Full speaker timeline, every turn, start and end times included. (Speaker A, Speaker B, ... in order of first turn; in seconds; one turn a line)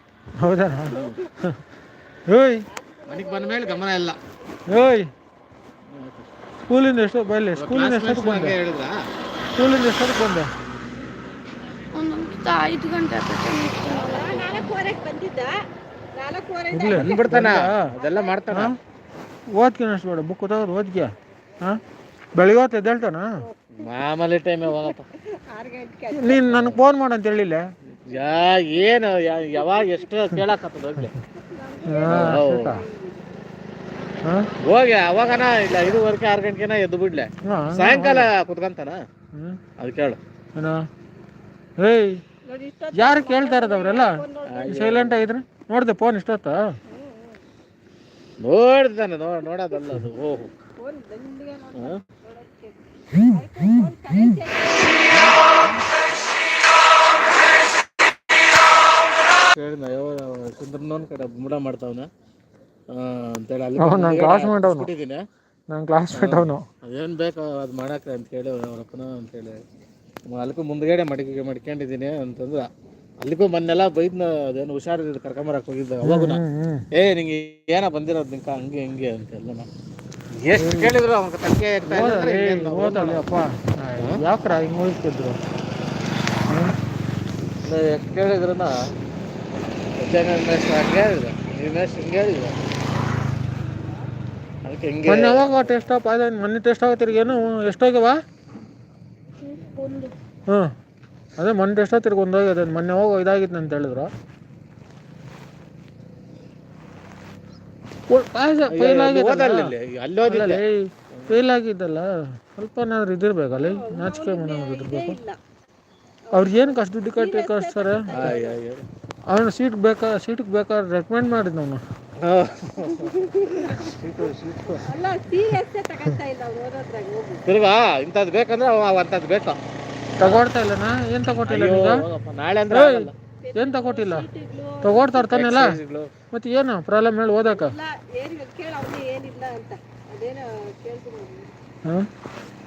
Speaker A: 0.4-1.6
Speaker B: 0.9-1.2
Speaker A: 2.3-2.6
Speaker C: 2.7-3.9
Speaker B: 3.1-4.2
Speaker A: 4.7-5.1
Speaker B: 5.9-6.3
Speaker A: 6.7-8.6
Speaker B: 7.5-8.9
Speaker A: 9.6-10.5
Speaker D: 11.9-14.7
Speaker C: 13.9-15.5
Speaker C: 16.1-17.2
Speaker A: 16.7-17.9
Speaker B: 16.9-18.8
Speaker C: 18.0-18.4
Speaker A: 18.5-18.8
Speaker A: 19.5-21.8
Speaker A: 22.3-23.3
Speaker B: 23.7-25.1
Speaker C: 25.5-26.4
Speaker A: 26.1-27.7
Speaker B: 26.3-26.8
Speaker B: 28.1-31.1
Speaker C: 31.4-33.3
Speaker A: 31.9-32.8
Speaker B: 32.1-32.7
Speaker A: 34.2-34.5
Speaker B: 34.6-39.0
Speaker A: 37.4-38.3
Speaker A: 39.3-39.6
Speaker B: 39.8-40.2
Speaker A: 40.5-40.9
Speaker A: 41.8-42.2
Speaker C: 42.4-44.9
Speaker A: 43.0-46.6
Speaker B: 44.5-45.2
Speaker C: 46.9-47.4
Speaker B: 48.4-50.5
Speaker C: 50.8-55.4
Speaker B: 55.2-55.7
Speaker B: 59.5-62.1
Speaker B: 62.9-65.2
Speaker A: 63.8-64.9
Speaker A: 65.7-66.7
Speaker B: 66.1-69.6
Speaker B: 70.3-72.7
Speaker B: 73.2-76.4
Speaker A: 76.0-76.8
Speaker B: 76.9-79.7
Speaker B: 80.3-83.2
Speaker A: 80.6-81.0
Speaker A: 81.8-85.4
Speaker A: 86.5-86.8
Speaker B: 87.6-88.7
Speaker B: 90.0-92.6
Speaker B: 94.6-95.6
Speaker A: 95.0-98.2
Speaker D: 99.4-100.1
Speaker A: 100.5-100.7
Speaker A: 101.4-104.1
Speaker A: 108.1-115.2
Speaker B: 108.7-111.4
Speaker C: 113.5-115.4
Speaker A: 116.3-118.3
Speaker C: 116.3-118.6
Speaker B: 118.1-118.8
Speaker A: 119.3-121.8
Speaker B: 122.2-124.8
Speaker C: 122.8-124.0
Speaker C: 124.8-127.4
Speaker B: 127.5-129.6
Speaker A: 130.2-132.0
Speaker B: 131.4-133.1
Speaker A: 132.7-134.2
Speaker C: 133.4-135.5
Speaker A: 134.8-135.8
Speaker B: 135.2-136.1
Speaker A: 136.3-137.7
Speaker C: 137.5-141.5